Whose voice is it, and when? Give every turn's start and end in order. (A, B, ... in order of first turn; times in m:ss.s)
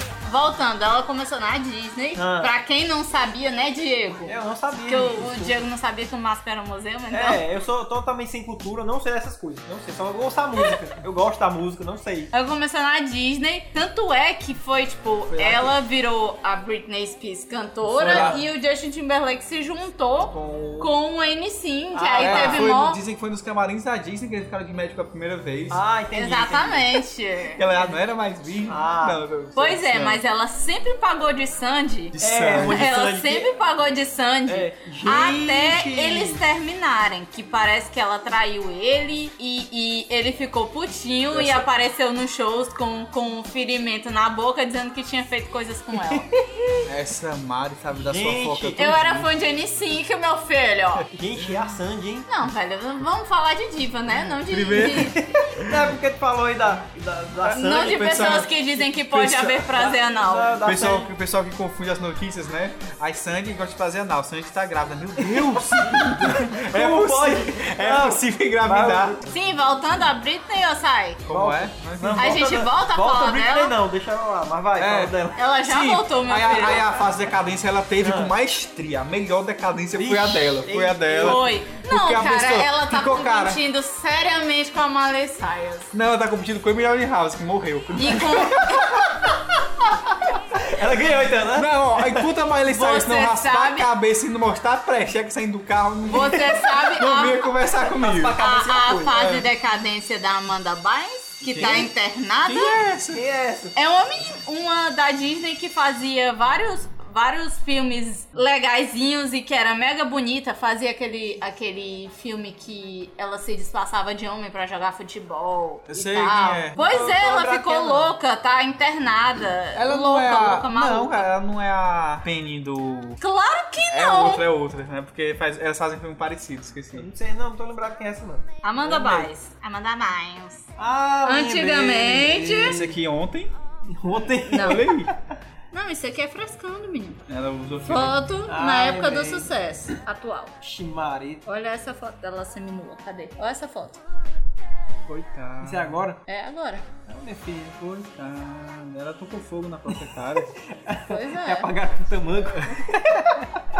0:00.2-0:07.4 A
0:02.2-0:02.5 B
0:04.2-0:05.6 B
0:07.1-0:12.3 B
0:12.3-0:23.0 A
0:15.3-0:15.7 C
0:17.9-0:18.4 B
0:18.1-0:18.4 C
0:20.3-0:20.9 B
0:21.9-0:22.7 B
0:22.2-0:25.8 C
0:25.7-0:27.0 B
0:26.1-0:27.6 A
0:27.6-0:30.2 C
0:28.7-0:29.2 B
0:29.5-0:46.3 A
0:32.1-0:32.8 C
0:32.2-0:33.5 B
0:34.5-0:36.4 B
0:41.3-0:41.6 C
0:45.9-0:46.7 B
0:46.8-0:49.3 C
0:48.0-0:48.8 B
0:48.8-0:51.0 A
0:51.1-0:52.2 B
0:51.4-0:51.8 C
0:52.3-0:55.2 A
0:54.4-0:55.9 C
0:54.9-0:58.5 B
0:57.5-1:00.6 A
0:57.5-0:59.8 C
0:59.7-1:01.1 B
1:00.6-1:09.2 C
1:05.2-1:09.2 B
1:09.2-1:11.2 A
1:11.2-1:12.5 C
1:11.3-1:15.4 B
1:12.2-1:13.7 A
1:14.8-1:23.6 C
1:15.4-1:16.8 A
1:18.0-1:18.3 B
1:19.9-1:21.4 B
1:21.2-1:25.9 A
1:25.9-1:29.1 C
1:27.9-1:28.9 A
1:28.6-1:29.2 B
1:30.5-1:32.3 B
1:31.3-1:38.4 C
1:32.6-1:33.9 A
1:36.1-1:37.5 A
1:37.8-1:39.2 B
1:38.4-1:42.8 A
1:39.1-1:39.5 C
1:41.4-1:41.9 C
1:41.6-1:41.9 B
1:42.4-1:43.2 C
1:43.1-1:43.7 B
1:43.7-2:01.3 A
1:55.9-1:56.8 C
1:56.8-1:58.1 B
1:59.7-2:03.2 C
2:03.2-2:04.4 A
2:03.9-2:07.1 C
2:06.9-2:09.3 B
2:08.6-2:10.6 A
2:10.8-2:13.0 B
2:11.2-2:12.8 A
2:12.6-2:13.5 C
2:13.8-2:15.1 B
2:14.4-2:14.8 A
2:14.5-2:15.1 C
2:15.7-2:17.2 A
2:17.3-2:18.2 C
2:17.8-2:20.5 A
2:18.5-2:19.5 B
2:20.6-2:21.4 B
2:21.4-2:24.0 A
2:25.1-2:26.0 C
2:25.6-2:26.2 B
2:26.2-2:26.8 A
2:27.1-2:28.1 B
2:28.0-2:30.5 C
2:30.6-2:33.6 B
2:31.0-2:31.7 A